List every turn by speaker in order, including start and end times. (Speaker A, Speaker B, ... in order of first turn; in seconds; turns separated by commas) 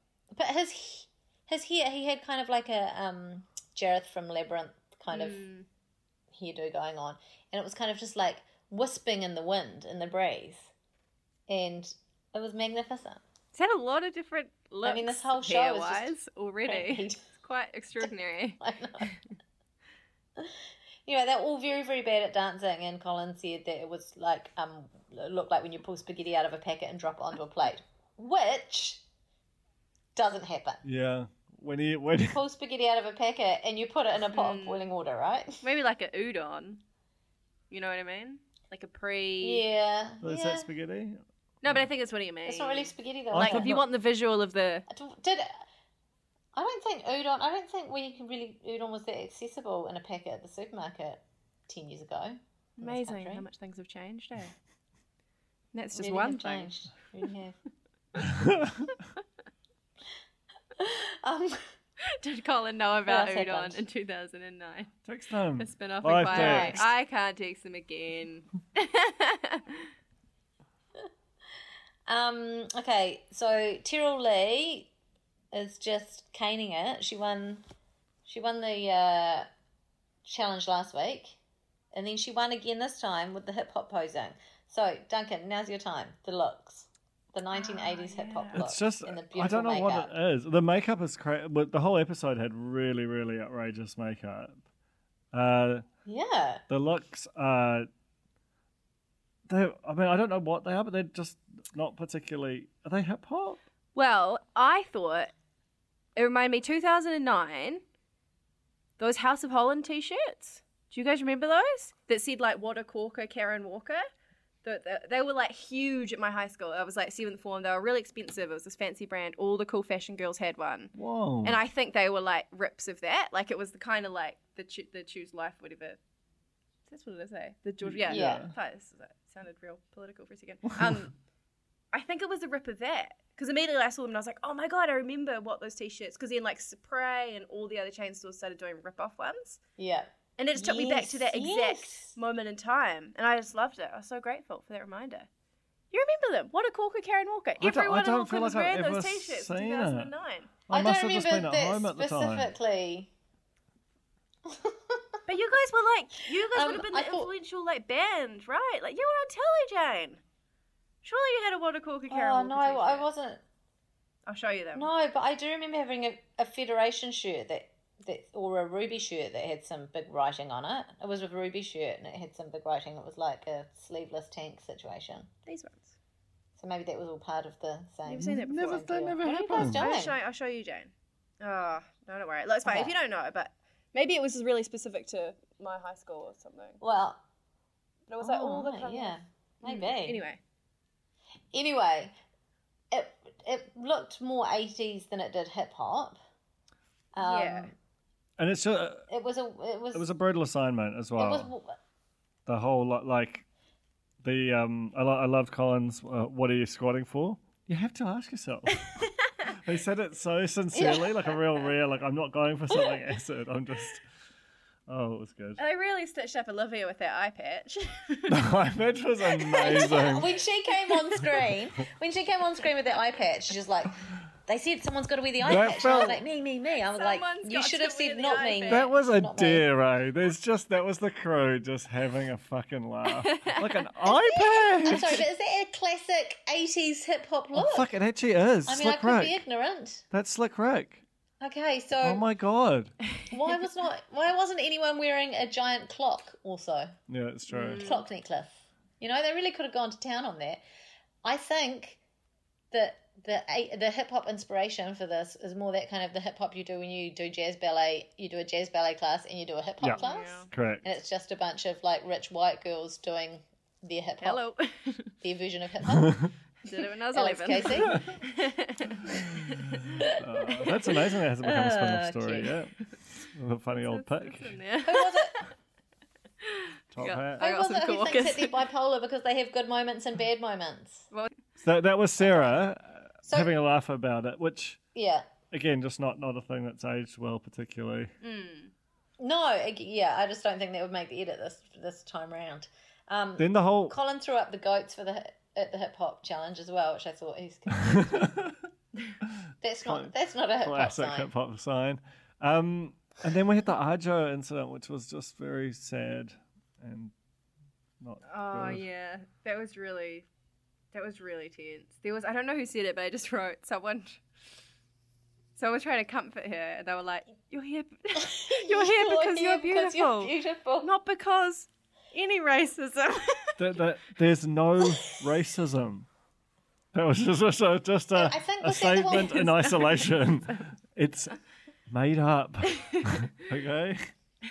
Speaker A: 0.3-5.4, Speaker B: 5.1-5.7, Speaker A: 6.3-10.7, Speaker A: 11.5-13.2, Speaker B: 13.5-19.2, Speaker A: 14.8-16.1, Speaker A: 16.6-17.2, Speaker A: 18.6-19.1, Speaker A: 20.4-29.0, Speaker A: 30.1-30.8, Speaker C: 30.9-32.4, Speaker A: 32.3-35.6, Speaker B: 34.3-34.9, Speaker B: 35.6-36.8, Speaker B: 37.7-39.6, Speaker A: 39.4-40.7, Speaker C: 40.2-41.8, Speaker B: 41.6-44.9, Speaker A: 42.5-43.7, Speaker C: 43.3-43.8, Speaker A: 44.9-45.6, Speaker A: 46.5-53.5, Speaker B: 52.8-54.5, Speaker B: 55.7-56.7, Speaker A: 56.0-57.6, Speaker C: 58.3-58.7, Speaker A: 60.8-61.7, Speaker B: 62.1-64.9, Speaker A: 63.1-63.8, Speaker C: 65.1-66.9, Speaker B: 65.6-69.9, Speaker A: 66.3-66.8, Speaker A: 72.1-74.9, Speaker A: 75.5-77.6, Speaker A: 78.3-79.5, Speaker A: 80.2-81.4, Speaker A: 81.9-90.1, Speaker B: 87.5-88.7, Speaker C: 88.5-94.6, Speaker C: 95.3-95.8, Speaker A: 96.0-96.6, Speaker C: 96.7-97.9, Speaker C: 99.5-103.6, Speaker B: 104.0-105.3, Speaker B: 106.2-107.8, Speaker B: 109.0-114.1, Speaker B: 114.6-120.9, Speaker C: 121.0-121.6, Speaker B: 121.4-126.0, Speaker B: 126.9-131.1, Speaker C: 127.8-128.5, Speaker A: 128.1-128.5, Speaker B: 131.9-139.6, Speaker A: 139.8-142.2, Speaker B: 140.4-145.3, Speaker B: 145.9-150.5, Speaker C: 147.6-150.1, Speaker C: 150.7-152.5, Speaker A: 150.7-153.1, Speaker A: 154.5-155.2, Speaker B: 155.3-160.2, Speaker A: 156.4-157.3, Speaker B: 161.0-163.1, Speaker A: 162.1-163.4, Speaker B: 164.3-164.9, Speaker A: 164.8-175.3, Speaker B: 175.5-176.0, Speaker A: 176.6-180.2, Speaker B: 178.1-186.8, Speaker C: 178.3-179.9, Speaker A: 182.7-182.9, Speaker A: 186.8-187.2, Speaker B: 188.1-190.4, Speaker A: 188.2-190.2, Speaker A: 191.5-192.1, Speaker A: 192.9-196.2, Speaker A: 197.2-197.7, Speaker B: 197.2-197.7, Speaker C: 198.4-199.1, Speaker A: 199.1-200.1, Speaker C: 199.9-201.5, Speaker A: 201.2-201.8, Speaker C: 202.5-203.4, Speaker C: 204.2-214.0, Speaker A: 210.7-211.4, Speaker C: 214.9-215.6, Speaker B: 215.6-218.4, Speaker C: 218.3-220.3, Speaker B: 219.3-220.1, Speaker A: 219.6-223.9, Speaker A: 224.5-229.7, Speaker C: 225.4-226.2, Speaker B: 226.9-228.9, Speaker C: 228.7-235.2, Speaker B: 233.2-233.6, Speaker A: 234.1-237.9, Speaker C: 237.5-239.4, Speaker A: 238.7-240.0, Speaker C: 240.1-241.0, Speaker A: 241.4-242.2, Speaker C: 242.0-242.9, Speaker A: 243.3-246.9, Speaker C: 247.1-247.8, Speaker B: 247.5-248.0, Speaker A: 247.7-250.6, Speaker A: 251.2-252.0, Speaker A: 252.7-264.5, Speaker C: 259.8-260.9, Speaker B: 259.9-260.5, Speaker B: 264.2-265.1, Speaker A: 265.2-266.3, Speaker B: 266.6-269.7, Speaker A: 267.1-268.1, Speaker C: 269.8-274.6, Speaker A: 270.0-270.7, Speaker A: 271.4-272.6, Speaker B: 273.9-275.5, Speaker A: 274.9-275.4, Speaker B: 276.4-278.6, Speaker C: 276.9-277.4, Speaker A: 277.4-281.1, Speaker C: 281.6-284.8, Speaker A: 282.2-282.6, Speaker A: 283.3-283.6, Speaker A: 284.9-285.3, Speaker C: 285.5-288.1, Speaker B: 288.2-288.7, Speaker A: 289.2-298.3, Speaker C: 293.4-294.0, Speaker C: 297.8-298.6, Speaker A: 299.6-301.3, Speaker C: 299.8-307.1, Speaker C: 308.0-308.8, Speaker B: 308.2-310.3, Speaker B: 310.9-314.2, Speaker B: 315.6-323.6, Speaker A: 318.2-320.9, Speaker C: 323.6-326.1, Speaker C: 326.9-331.4, Speaker A: 328.1-329.5, Speaker B: 329.3-330.6, Speaker C: 331.9-334.1